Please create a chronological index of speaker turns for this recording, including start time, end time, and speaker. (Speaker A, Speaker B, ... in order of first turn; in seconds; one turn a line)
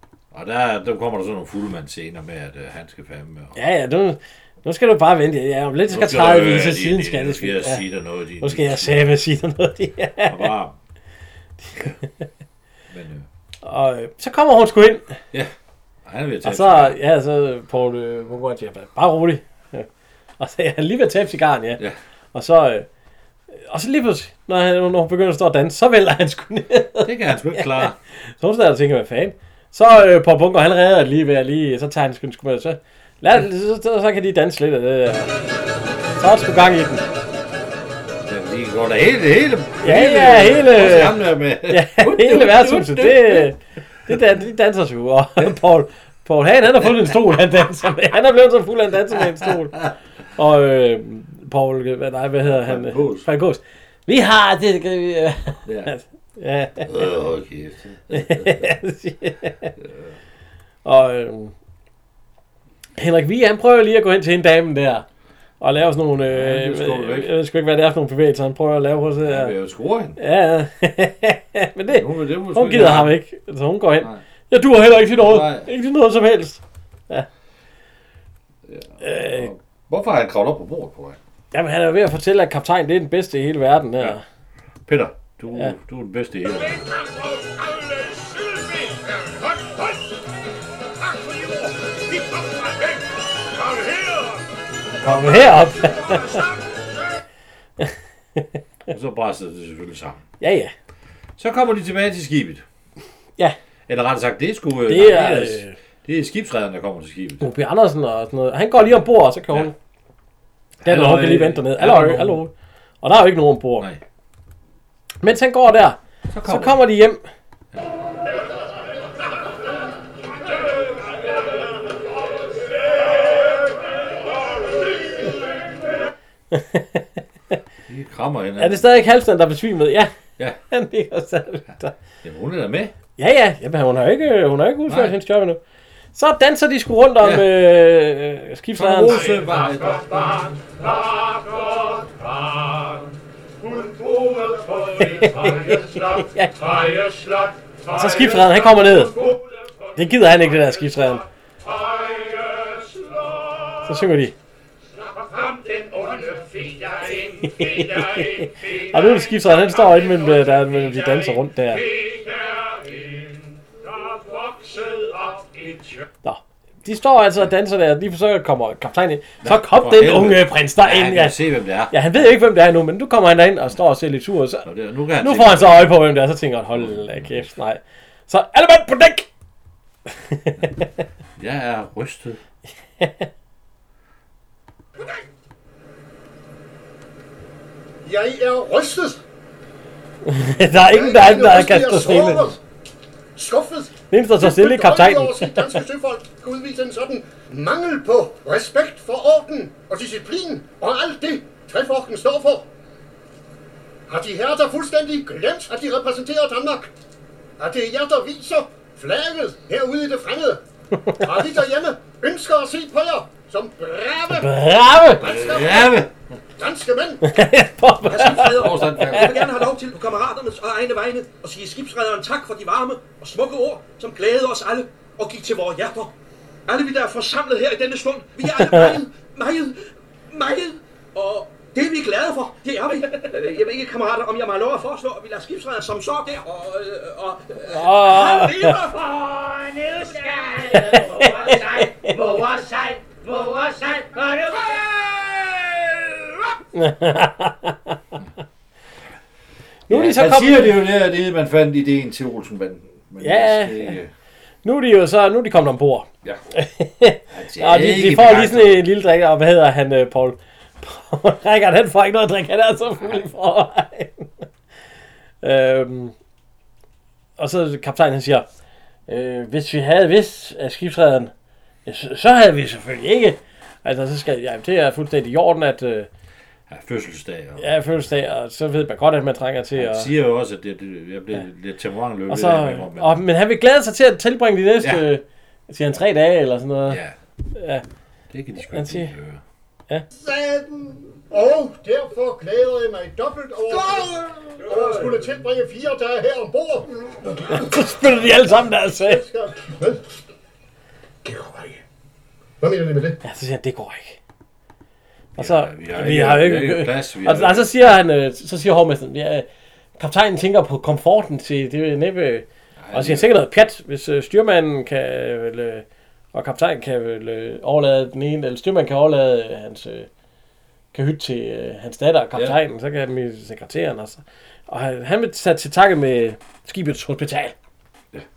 Speaker A: 0.3-3.6
Speaker B: 3.6-7.8
Speaker A: 5.9-9.0
Speaker B: 8.4-10.5
Speaker A: 10.3-10.8
Speaker A: 12.9-13.3
Speaker B: 13.6-15.1
Speaker A: 16.1-17.0
Speaker B: 16.4-19.9
Speaker B: 20.4-21.8
Speaker B: 22.3-22.9
Speaker B: 23.6-35.3
Speaker A: 27.0-28.0
Speaker B: 36.2-37.0
Speaker A: 38.3-43.5
Speaker B: 39.8-49.8
Speaker A: 49.4-49.9
Speaker B: 50.4-56.9
Speaker A: 52.4-53.3
Speaker A: 55.7-55.9
Speaker A: 56.8-58.8
Speaker B: 58.1-59.7
Speaker A: 59.8-60.2
Speaker B: 60.9-61.5
Speaker B: 63.0-65.0
Speaker B: 65.6-69.5
Speaker A: 66.3-67.3
Speaker A: 69.2-70.2
Speaker B: 70.2-77.3
Speaker A: 71.9-73.2
Speaker A: 75.0-75.7
Speaker A: 78.7-81.2
Speaker B: 79.0-79.5
Speaker B: 81.5-84.2
Speaker A: 84.9-86.8
Speaker C: 86.8-89.9
Speaker C: 91.0-93.0
Speaker C: 93.6-94.4
Speaker B: 95.0-96.4
Speaker C: 96.0-96.5
Speaker B: 97.8-98.4
Speaker A: 98.9-100.2
Speaker B: 100.4-100.7
Speaker A: 101.4-102.6
Speaker A: 103.9-107.5
Speaker B: 104.9-105.8
Speaker B: 107.4-109.7
Speaker A: 110.8-112.4
Speaker B: 110.8-113.9
Speaker B: 115.2-117.2
Speaker A: 116.3-116.8
Speaker B: 126.5-127.1
Speaker A: 127.9-128.9
Speaker B: 128.6-130.1
Speaker B: 130.7-131.9
Speaker A: 132.2-132.9
Speaker B: 133.2-135.6
Speaker A: 134.9-135.2
Speaker B: 136.2-139.3
Speaker A: 137.2-137.5
Speaker A: 138.8-140.1
Speaker C: 139.4-143.1
Speaker C: 143.6-149.3
Speaker B: 145.0-146.5
Speaker B: 147.9-149.2
Speaker B: 150.0-151.2
Speaker C: 151.7-153.7
Speaker B: 153.9-154.3
Speaker C: 155.0-160.6
Speaker B: 157.6-161.9
Speaker C: 161.7-163.1
Speaker C: 163.9-166.0
Speaker B: 166.2-171.4
Speaker A: 169.4-172.3
Speaker B: 171.9-174.7
Speaker A: 174.7-176.1
Speaker B: 175.2-179.3
Speaker A: 176.7-177.5
Speaker B: 180.3-180.9
Speaker A: 181.4-182.4
Speaker B: 183.0-183.3
Speaker D: 188.0-189.2
Speaker B: 190.3-192.5
Speaker D: 190.8-192.6
Speaker D: 193.4-202.7
Speaker B: 194.1-195.8
Speaker D: 204.1-206.9
Speaker D: 207.6-210.6
Speaker D: 211.2-214.6
Speaker B: 214.3-215.3
Speaker D: 215.2-216.0
Speaker A: 215.2-216.1
Speaker D: 216.6-217.3
Speaker B: 217.2-219.4
Speaker E: 218.0-226.1
Speaker A: 218.1-219.6
Speaker E: 226.7-229.8
Speaker B: 228.5-229.0
Speaker E: 230.3-239.1
Speaker B: 237.7-238.8
Speaker F: 239.9-241.5
Speaker B: 240.7-242.2
Speaker F: 242.4-244.2
Speaker B: 246.7-248.0
Speaker B: 249.9-250.8
Speaker A: 249.9-254.1
Speaker B: 253.2-254.0
Speaker B: 254.6-264.4
Speaker A: 257.3-258.9
Speaker B: 265.4-266.1
Speaker B: 267.4-268.5
Speaker B: 269.1-271.3
Speaker B: 271.9-276.1
Speaker A: 276.7-277.8
Speaker B: 277.6-280.1
Speaker A: 279.7-283.2
Speaker B: 282.3-287.0
Speaker A: 284.8-285.1
Speaker A: 286.9-287.1
Speaker B: 287.6-287.8
Speaker A: 288.3-289.4
Speaker B: 288.7-289.1
Speaker D: 290.2-297.7
Speaker B: 297.5-299.2
Speaker D: 299.0-300.0
Speaker D: 301.2-301.8
Speaker D: 302.6-303.2
Speaker B: 303.2-304.2
Speaker A: 305.4-307.8
Speaker B: 305.4-309.5
Speaker B: 310.0-320.1
Speaker A: 312.8-313.3
Speaker B: 320.9-327.6